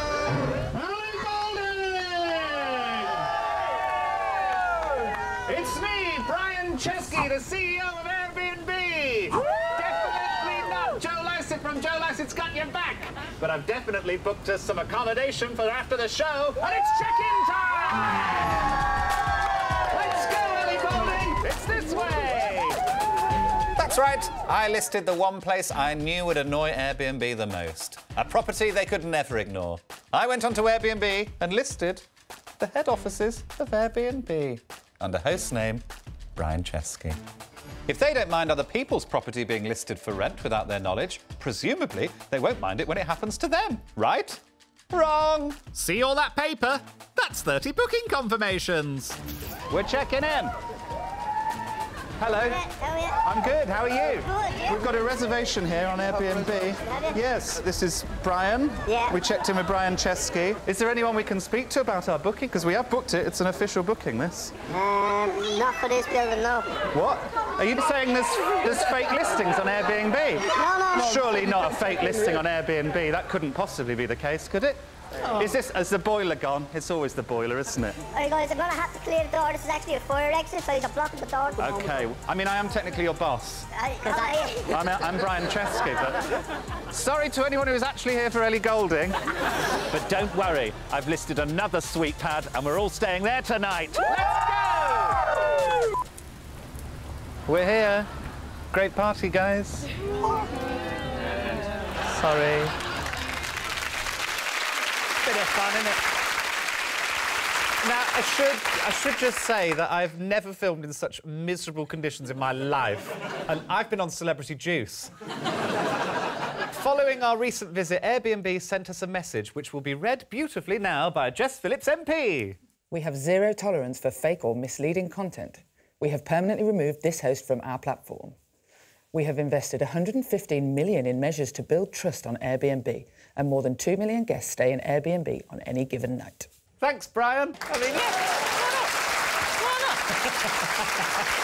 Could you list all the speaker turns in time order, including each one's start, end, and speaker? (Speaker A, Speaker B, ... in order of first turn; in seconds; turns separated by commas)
Speaker A: 0.5-18.6, Speaker A: 19.6-22.8, Speaker A: 23.8-32.0, Speaker A: 32.6-35.8, Speaker A: 36.4-37.2, Speaker A: 37.9-49.2, Speaker A: 49.7-50.5, Speaker A: 52.2-52.7, Speaker B: 52.6-53.2, Speaker A: 53.2-64.5, Speaker B: 56.9-57.1, Speaker B: 58.9-59.1, Speaker B: 64.7-66.8, Speaker A: 66.9-78.0, Speaker B: 70.5-71.1, Speaker B: 78.1-81.6, Speaker A: 81.6-83.7, Speaker B: 83.7-84.7, Speaker A: 84.6-86.2, Speaker A: 86.9-89.2, Speaker A: 89.9-95.6, Speaker A: 97.5-98.1, Speaker A: 98.7-99.9, Speaker A: 102.1-102.7, Speaker A: 105.2-106.0, Speaker A: 107.8-115.1, Speaker A: 116.7-122.5, Speaker C: 122.9-128.3, Speaker C: 129.1-136.5, Speaker A: 136.8-138.9, Speaker A: 139.6-141.2